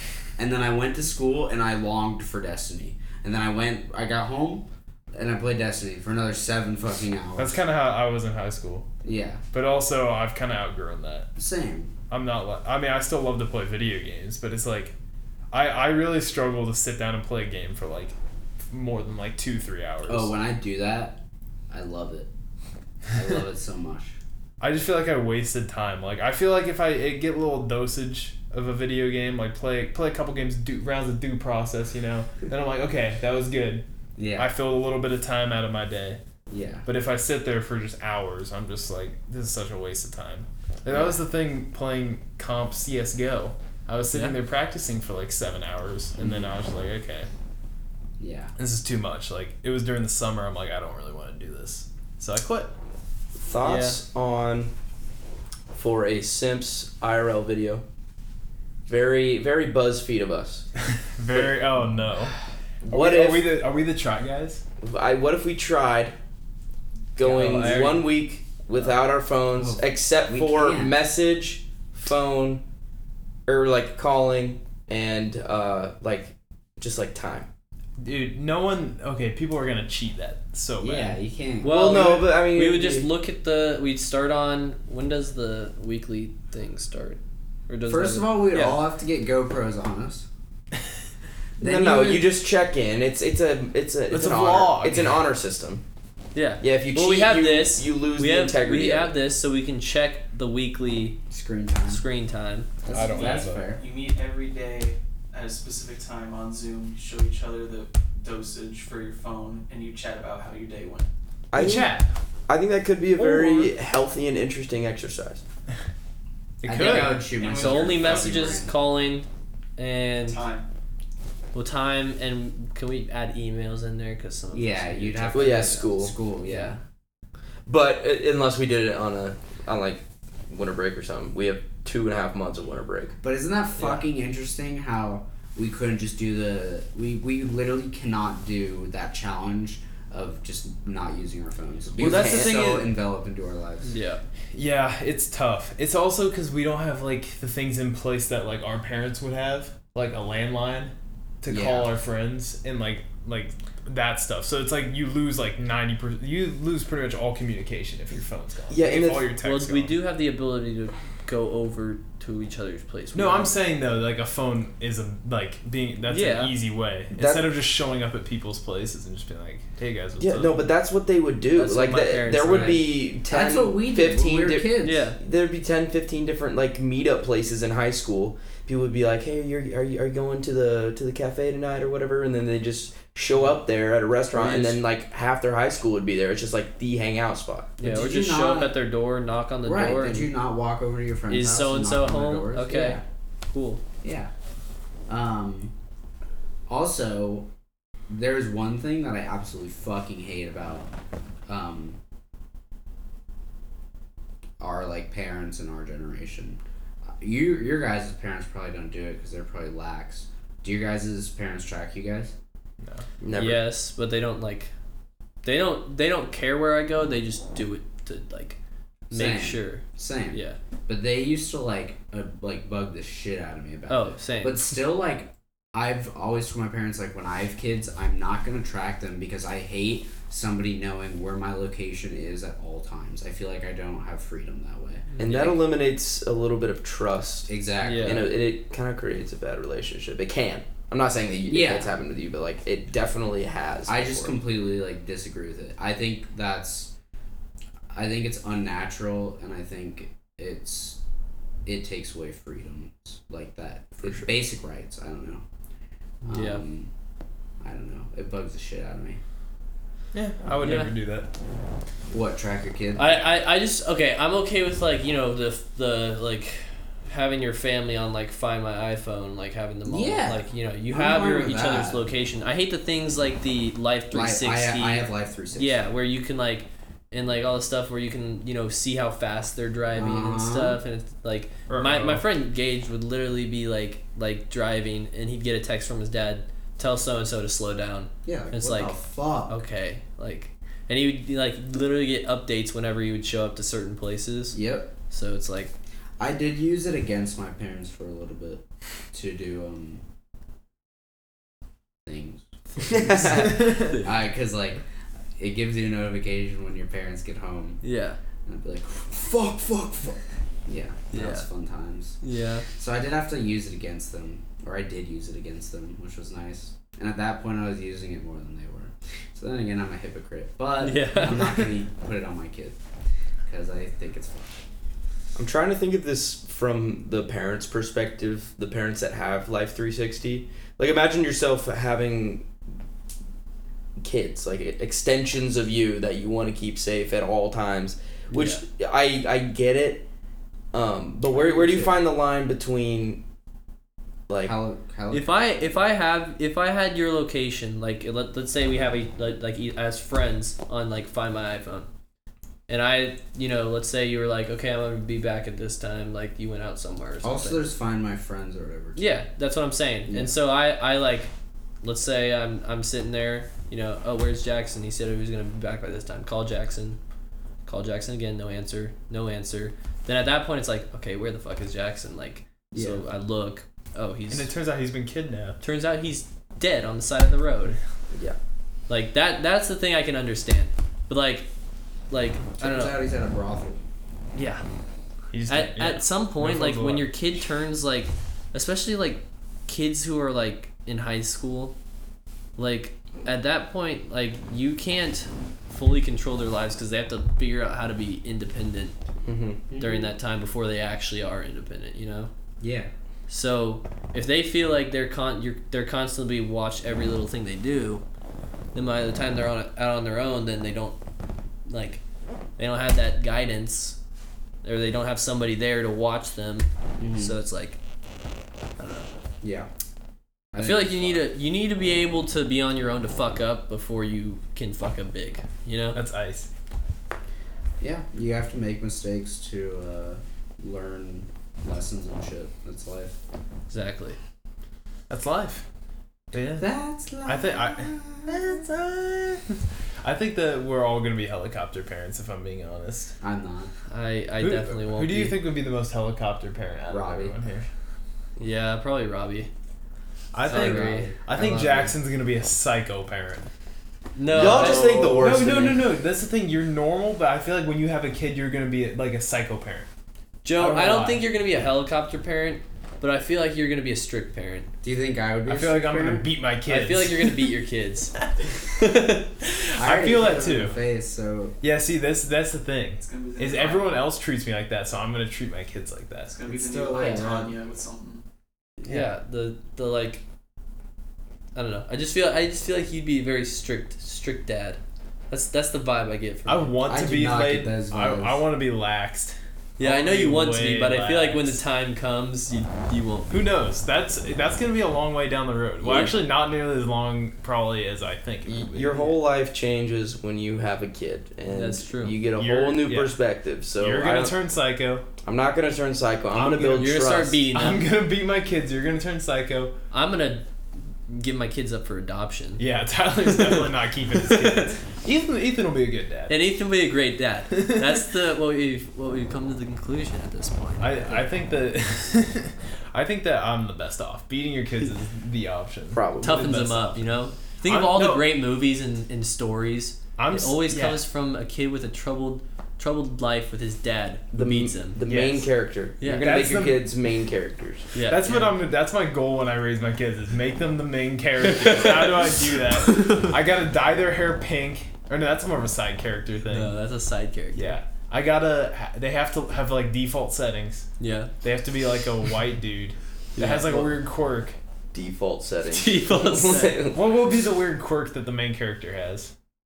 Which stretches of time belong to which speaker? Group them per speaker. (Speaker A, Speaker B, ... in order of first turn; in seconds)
Speaker A: 0.4-7.6, 9.0-9.4, 11.4-11.9, 20.1-22.3, 23.1-24.2, 34.2-34.5, 36.5-36.9, 40.9-41.2, 46.2-46.6, 48.2-48.5, 69.5-70.9, 80.8-82.0, 87.9-90.3, 91.6-92.3, 101.3-102.0, 102.8-103.8, 116.6-118.7, 124.5-126.8, 133.2-144.0, 151.5-151.9, 173.2-175.1, 187.8-188.8, 189.7-193.0, 194.0-194.3, 195.1-195.7, 196.7-197.5, 198.1-200.9, 201.5-202.0, 204.6-206.6, 207.2-212.3, 219.1-235.1, 237.5-238.3, 241.5-241.9, 243.9-246.9, 247.9-251.0, 251.7-255.4, 256.2-256.9, 257.6-259.2, 262.1-263.3, 269.9-272.1, 274.1-275.8, 279.9-280.8, 288.3-289.6, 294.5-294.9, 296.2-300.0, 302.1-304.8, 305.4-307.8, 308.5-312.2, 312.7-322.8, 323.5-324.6, 341.3-342.0, 344.4-345.3, 357.2-359.1, 360.1-360.4, 372.7-373.0, 382.6-383.9, 399.7-400.1, 402.6-402.9, 417.0-417.3, 419.4-419.7, 420.5-421.3, 427.8-433.2, 436.6-438.6, 443.2-443.7, 446.9-447.3, 450.5-451.9, 464.8-466.3, 469.8-471.6, 476.4-477.6, 486.9-488.4
Speaker B: 7.4-8.9, 9.5-11.3, 12.1-14.9, 15.5-18.2, 18.7-20.3, 24.6-36.2, 36.9-47.3, 48.6-52.7, 61.1-62.3, 62.9-64.6, 78.0-81.2, 94.1-95.2, 102.9-103.7, 111.5-112.1, 116.6-117.3, 142.0-142.8, 144.5-160.0, 163.1-170.7, 260.1-261.3, 281.7-282.2, 303.6-303.9, 374.3-375.6, 385.3-387.1, 425.9-426.5, 435.1-435.6, 436.3-436.7, 437.3-443.1, 444.4-447.7, 450.3-453.5, 454.3-459.9, 460.6-461.2, 465.5-467.5, 469.4-470.8, 471.6-476.4, 486.5-491.6, 493.3-499.1, 502.4-503.2, 503.8-505.1, 506.3-509.7, 512.6-516.4, 517.6-517.9, 520.8-527.1, 527.6-528.2, 530.2-531.0, 535.0-535.5, 536.1-536.9, 538.0-546.7, 547.5-550.9, 551.4-554.6, 556.9-559.3
Speaker C: 44.1-44.4, 53.6-54.0, 67.2-68.2, 81.6-88.8, 96.3-101.2, 101.9-102.8, 113.4-113.7, 116.8-120.4, 121.5-125.9, 126.4-126.8, 133.8-134.1, 143.8-144.2, 159.4-163.5, 166.1-166.6, 171.6-172.9, 174.8-175.2, 184.3-184.8, 187.8-190.3, 191.3-193.8, 213.3-214.7, 215.4-218.6, 219.1-220.6, 223.9-224.7, 235.1-235.6, 237.8-238.3, 256.3-256.6, 260.6-260.9, 263.0-289.0, 289.5-295.7, 303.6-304.2, 307.8-308.2, 311.1-311.5, 312.2-312.7, 320.8-321.7, 338.3-338.6, 345.1-351.9, 352.7-357.6, 359.0-361.3, 361.8-367.0, 367.6-374.5, 375.6-377.8, 378.9-381.5, 382.1-383.0, 384.4-384.6, 385.5-391.8, 392.6-399.0, 399.8-402.3, 403.3-408.0, 408.8-411.0, 411.7-412.0, 412.6-414.0, 414.6-417.8, 418.8-419.1, 420.6-426.0, 433.7-434.2, 443.9-445.4, 448.4-449.5, 450.5-451.1, 454.2-455.6, 460.4-464.7, 466.7-468.1, 468.7-469.3, 478.9-480.2, 481.6-486.7, 489.8-493.4, 501.5-502.2, 506.8-507.9, 509.9-510.4, 511.1-512.6, 513.2-514.8, 516.3-521.3, 526.2-535.0, 536.0-536.3, 537.9-538.6, 541.4-543.3, 546.5-547.8, 551.0-551.3, 553.4-553.9, 555.7-556.8
Speaker D: 53.4-54.7, 55.7-57.8, 58.9-60.7, 61.3-61.6, 62.8-63.5, 64.8-66.2, 67.2-72.6, 73.5-77.5, 81.6-83.1, 91.6-95.8, 96.6-99.1, 111.5-111.9, 112.5-115.4, 125.3-126.1, 127.7-133.2, 142.0-142.8, 158.7-159.3, 167.1-167.5, 170.2-187.7, 213.2-213.7, 235.2-244.4, 254.0-254.3, 302.8-303.7, 325.4-332.5, 334.0-340.1, 340.7-343.2, 344.3-344.6, 399.2-399.6, 454.3-455.8, 495.8-496.2, 498.5-504.4, 505.2-507.4, 525.9-526.5, 534.3-537.9, 554.9-557.0
Speaker E: 103.1-111.1, 117.3-118.6, 120.2-120.7, 473.0-474.0, 476.3-478.2